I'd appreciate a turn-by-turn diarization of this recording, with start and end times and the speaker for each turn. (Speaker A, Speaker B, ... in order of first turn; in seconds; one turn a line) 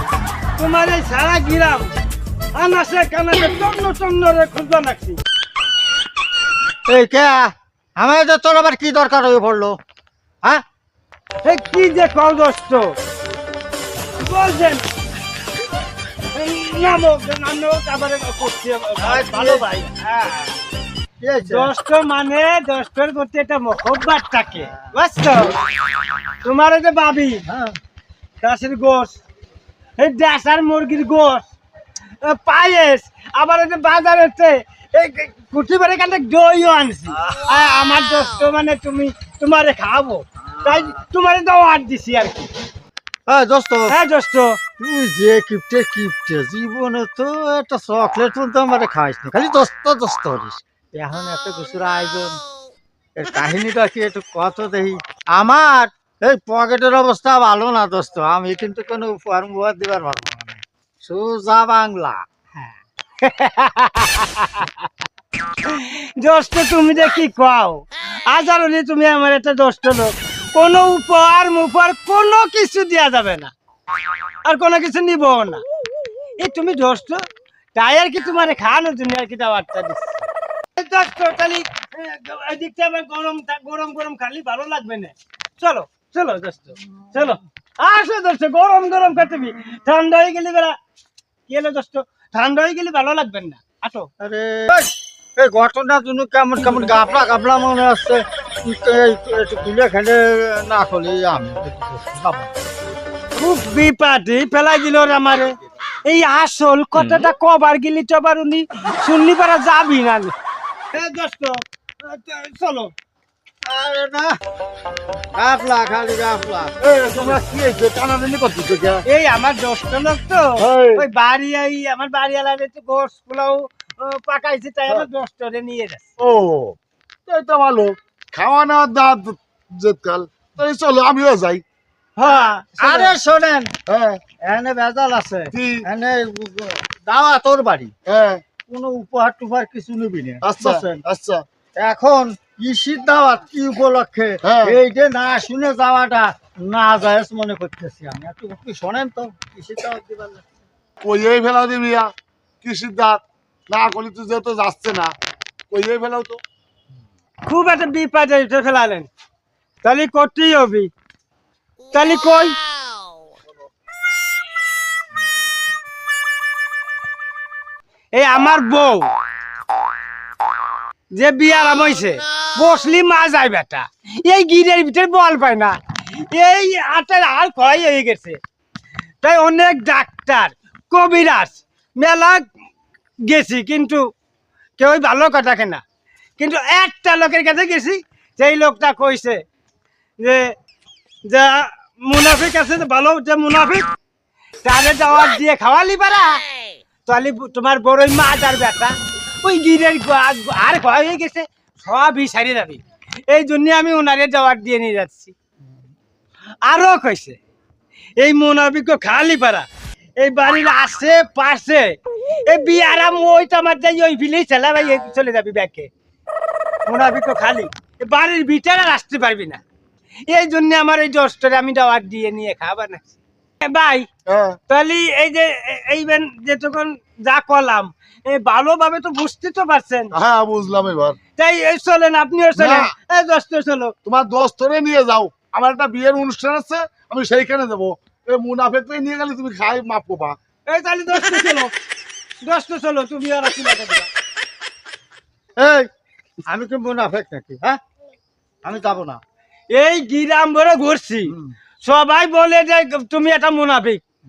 Speaker A: 0.6-1.9
Speaker A: 2.6-5.2
Speaker B: 6.9-9.8
Speaker A: 11.4-12.9
Speaker A: 14.2-14.8
Speaker A: 16.3-20.6
Speaker B: 19.0-19.7
Speaker B: 21.2-21.7
Speaker A: 21.5-25.6
Speaker A: 26.4-27.4
Speaker B: 27.5-27.8
Speaker A: 28.4-29.2
Speaker A: 30.0-31.5
Speaker A: 32.2-42.5
Speaker B: 43.3-44.0
Speaker A: 43.9-44.6
Speaker B: 44.8-52.4
Speaker B: 53.2-62.2
Speaker A: 63.2-64.9
Speaker A: 65.6-73.5
Speaker A: 74.5-75.6
Speaker A: 76.4-77.2
Speaker A: 77.8-80.2
Speaker A: 80.8-90.7
Speaker A: 91.5-94.1
Speaker B: 94.2-102.5
Speaker A: 103.4-110.3
Speaker A: 110.9-112.9
Speaker B: 113.6-114.4
Speaker B: 115.3-117.4
Speaker C: 116.8-119.0
Speaker A: 119.1-126.0
Speaker C: 120.6-121.0
Speaker C: 126.2-131.6
Speaker A: 132.2-133.2
Speaker B: 132.2-133.7
Speaker C: 133.9-134.2
Speaker B: 134.4-137.9
Speaker C: 135.5-135.9
Speaker C: 138.1-138.4
Speaker B: 138.7-141.0
Speaker C: 140.4-141.4
Speaker B: 141.8-150.5
Speaker C: 144.4-144.8
Speaker C: 151.0-152.1
Speaker C: 152.6-155.2
Speaker C: 155.7-156.4
Speaker A: 157.4-159.1
Speaker A: 159.8-160.9
Speaker A: 161.9-162.6
Speaker A: 168.1-169.1
Speaker A: 171.2-175.8
Speaker A: 176.3-178.4
Speaker A: 179.2-182.4
Speaker A: 183.2-184.1
Speaker A: 184.8-185.8
Speaker A: 186.4-189.4
Speaker A: 190.2-190.5
Speaker A: 191.3-193.9
Speaker A: 194.6-196.5
Speaker A: 197.1-205.3
Speaker A: 206.6-207.4
Speaker A: 208.2-209.7
Speaker A: 210.2-215.9
Speaker A: 216.9-219.6
Speaker A: 220.3-224.1
Speaker C: 224.3-224.6
Speaker A: 224.7-230.1
Speaker C: 230.1-231.2
Speaker A: 231.4-233.9
Speaker C: 232.6-232.9
Speaker C: 234.1-240.4
Speaker A: 240.7-241.7
Speaker A: 242.4-244.1
Speaker B: 245.6-245.9
Speaker B: 246.5-247.8
Speaker B: 248.6-249.2
Speaker A: 249.7-254.0
Speaker B: 251.3-251.5